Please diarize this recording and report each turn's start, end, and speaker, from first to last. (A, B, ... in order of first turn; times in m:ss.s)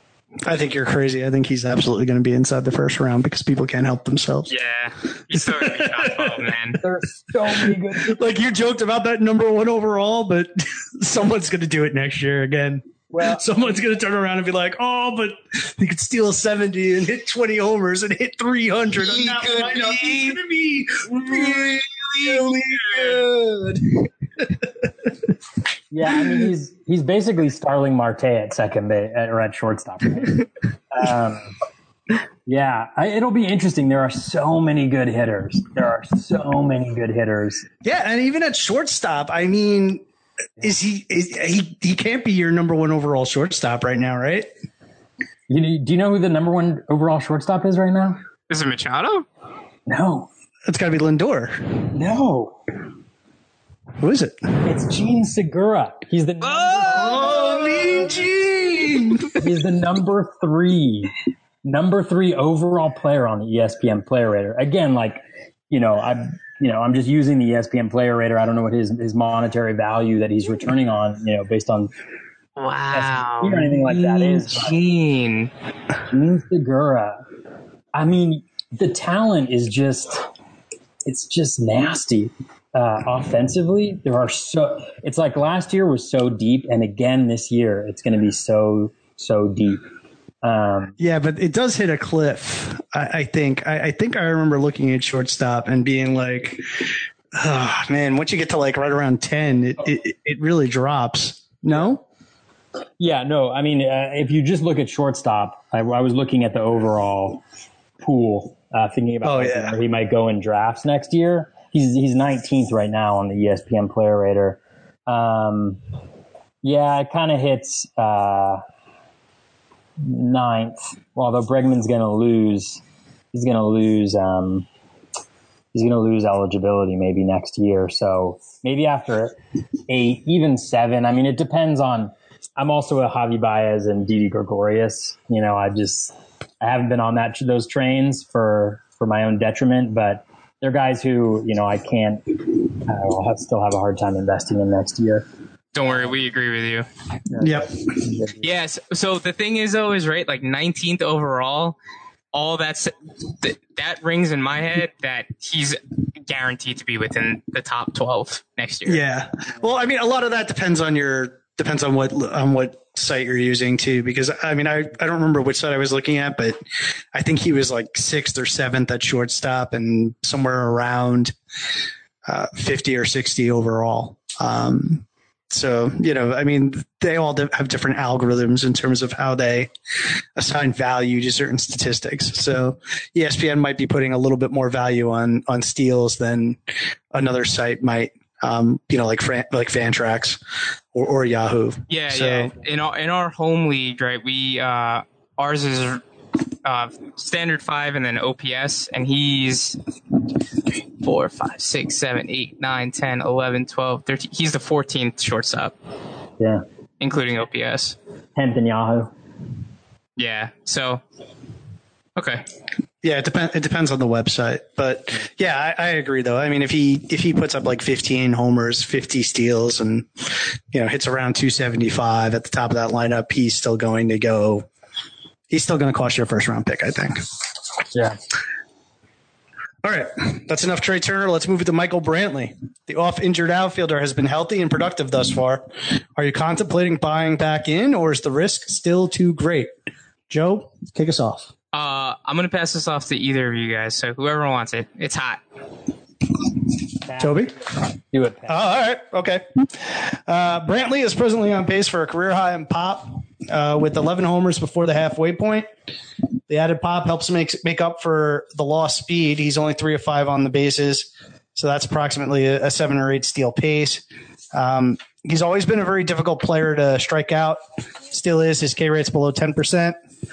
0:00.4-0:04.5 A
0:04.5-0:06.8 B
0:05.3-0:06.5 A
0:06.8-0:08.4 C
0:07.6-0:23.8 A
0:13.1-0:13.4 C
0:19.0-0:20.4 B
0:21.2-0:21.7 B
0:22.2-0:23.2 B
0:25.9-0:31.5 C
0:32.4-0:37.7 C
0:37.8-0:40.0 A
0:40.6-0:44.5 A
0:45.5-0:48.2 C
0:48.5-0:49.2 B
0:49.9-0:50.3 C
0:50.6-0:51.9 A
0:51.9-0:52.6 C
0:54.0-0:54.6 A
0:54.6-0:57.2 C
0:56.4-0:57.3 B
0:56.8-0:59.4 A
0:59.4-1:01.1 C
1:01.6-1:11.9 C
1:12.6-1:15.5 B
1:12.9-1:14.8 C
1:16.1-1:17.2 C
1:17.9-1:20.2 C
1:21.0-1:29.8 C
1:30.4-1:30.9 C
1:31.0-1:42.0 A
1:43.0-1:47.4 C
1:48.0-1:55.8 C
1:49.2-1:49.7 A
1:56.6-1:58.6 C
2:00.0-2:02.8 C
2:03.3-2:04.7 C
2:05.7-2:09.4 C
2:09.9-2:25.2 C
2:25.7-2:26.9 B
2:25.8-2:26.2 C
2:27.3-2:28.5 C
2:27.4-2:27.7 A
2:28.4-2:31.8 B
2:32.3-2:39.0 B
2:38.8-2:46.6 A
2:47.1-2:51.3 A
2:52.2-2:59.7 A
3:00.4-3:10.4 A
3:10.9-3:12.5 A
3:11.9-3:16.0 B
3:16.6-3:19.8 B
3:21.0-3:25.8 B
3:27.0-3:28.0 B
3:28.4-3:29.1 C
3:30.2-3:31.0 B
3:32.2-3:32.4 B
3:33.0-3:44.7 A
3:45.5-3:47.2 A
3:47.9-3:48.2 C
3:49.8-3:59.7 A
4:00.3-4:01.5 A
4:01.7-4:05.4 B
4:07.0-4:07.6 C
4:07.2-4:07.5 A
4:08.1-4:08.7 C
4:08.5-4:15.7 A
4:16.5-4:30.0 A